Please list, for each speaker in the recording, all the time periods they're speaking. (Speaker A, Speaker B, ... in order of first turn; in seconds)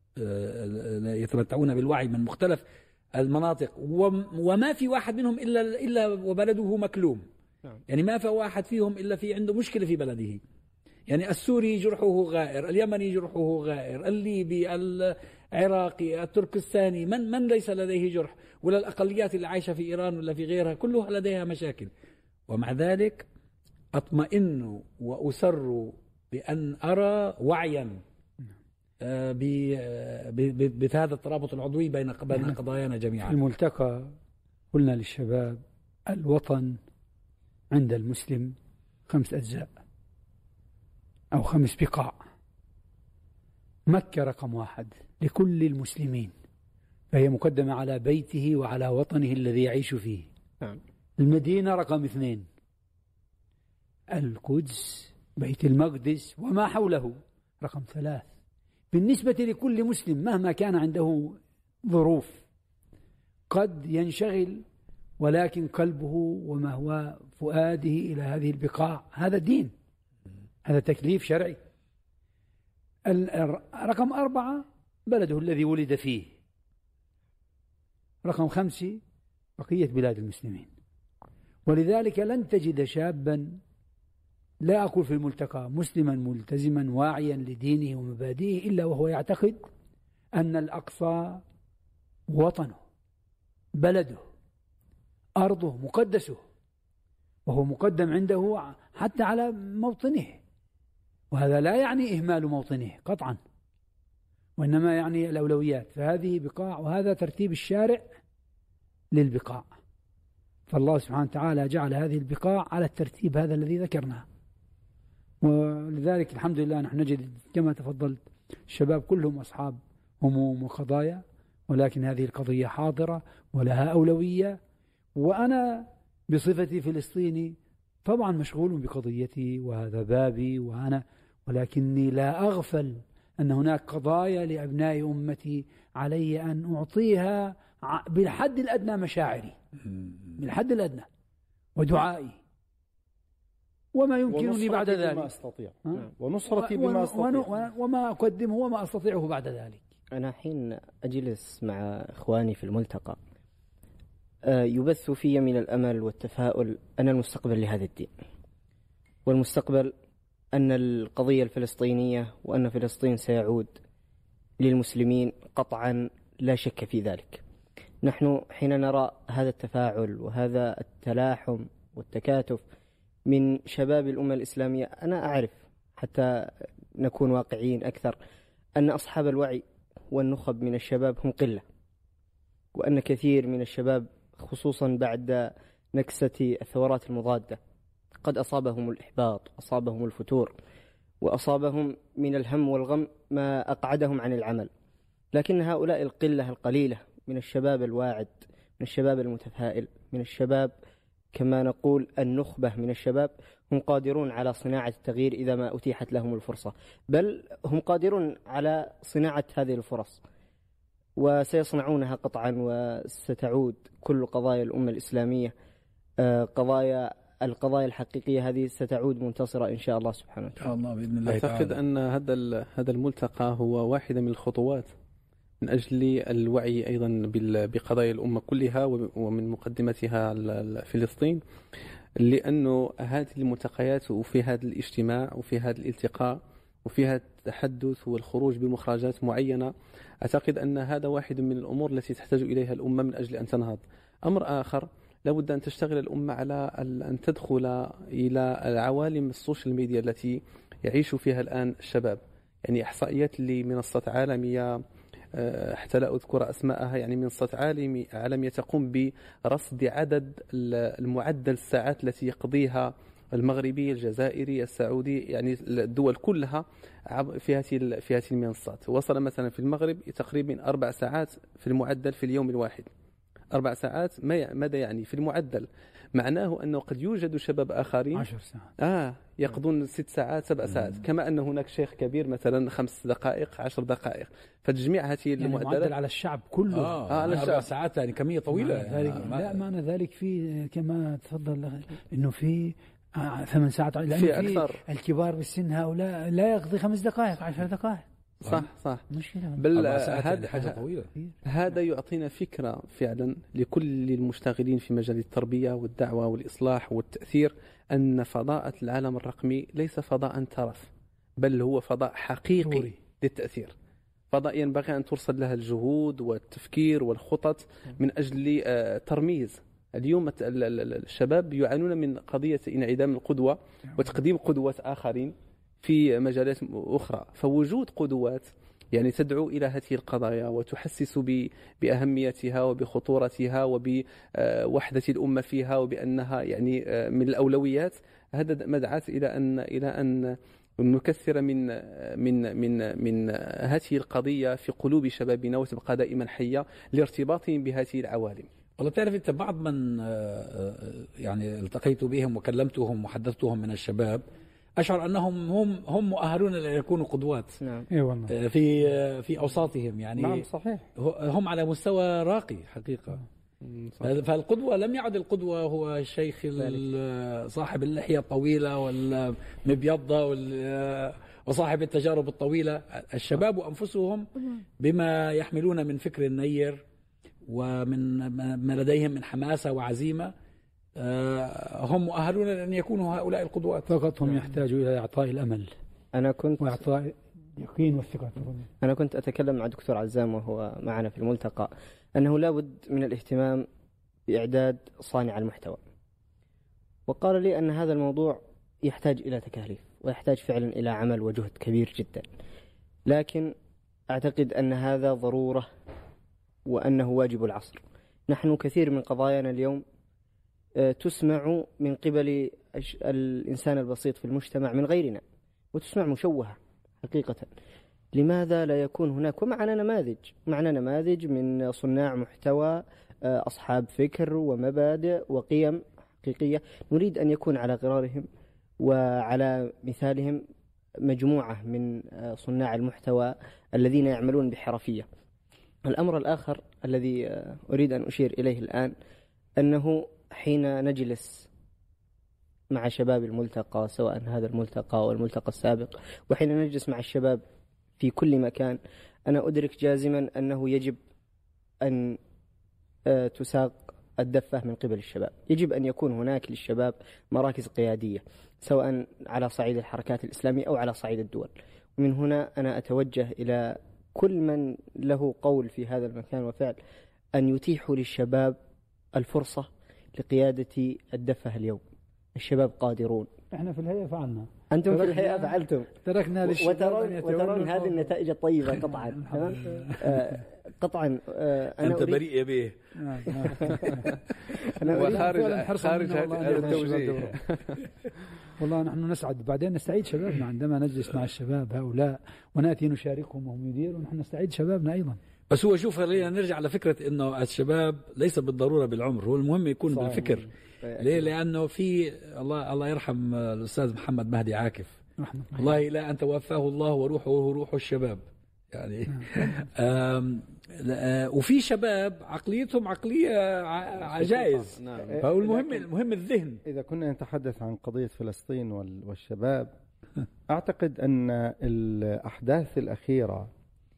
Speaker A: 0.2-2.6, 3.2-7.2, 7.9-10.4, 11.1-21.9, 22.5-23.3, 23.9-28.0, 29.0-33.4, 139.9-140.3, 220.6-221.8, 280.7-281.0, 286.7-289.6, 298.4-298.7, 299.7-301.1, 348.8-354.2, 354.8-357.6, 358.3-360.4, 361.0-363.2, 364.0-376.8, 377.5-380.3, 381.0-383.9, 479.7-480.2, 481.8-484.0, 495.5-505.0, 505.5-516.6
Speaker B: 32.3-32.6, 33.2-34.1, 34.7-36.8, 37.7-38.5, 39.1-39.7, 41.3-42.2, 43.9-46.3, 47.1-50.3, 51.2-52.5, 54.1-58.3, 58.9-62.4, 63.5-64.6, 65.2-69.7, 70.6-71.6, 73.1-76.3, 78.2-79.0, 79.6-80.7, 81.7-83.6, 84.6-89.6, 90.4-91.4, 92.3-92.8, 93.8-94.2, 95.4-96.4, 97.5-100.4, 101.3-103.4, 104.6-108.1, 109.1-109.7, 110.7-114.2, 115.4-124.6, 125.2-139.6, 140.4-141.1, 141.8-142.4, 143.9-145.3, 145.8-149.8, 278.1-278.7, 285.4-287.4, 288.5-298.1, 299.1-299.6, 312.6-313.0, 357.9-358.3, 383.9-385.7, 386.6-388.7, 473.5-478.1, 479.1-479.9, 482.9-484.0, 484.9-487.4, 488.6-495.2, 505.2-505.6
Speaker C: 144.3-147.5, 360.2-360.9, 515.1-515.9, 516.6-519.7, 520.5-523.5
Speaker D: 150.1-153.2, 154.4-158.1, 159.2-159.9, 160.5-163.7, 164.6-167.4, 168.0-172.6, 173.3-178.2, 178.8-181.6, 182.7-187.6, 188.2-190.5, 191.2-194.7, 195.3-200.7, 201.3-210.2, 211.2-215.5, 216.2-220.6, 357.6-357.9, 386.1-386.8, 388.8-393.7, 394.3-395.8, 397.1-402.2, 403.1-403.5, 404.1-405.7, 406.6-409.8, 410.8-415.2, 415.7-417.5, 418.1-428.3, 428.8-430.4, 431.0-435.1, 435.8-438.9, 439.6-441.5, 442.7-447.4, 448.0-451.0, 451.8-452.2, 453.1-466.8, 467.4-468.6, 469.1-471.8, 472.4-473.3, 474.7-475.9, 476.4-482.2, 483.6-484.0, 484.6-485.3, 486.6-486.8, 500.8-501.3
Speaker E: 221.2-224.9, 225.6-231.4, 232.2-254.8, 255.3-272.9, 273.5-278.3, 278.8-285.9, 287.1-287.7, 294.1-294.8, 298.4-299.0, 299.6-300.8, 301.4-313.7, 314.3-348.5, 363.6-364.1, 484.9-487.8, 514.2-515.2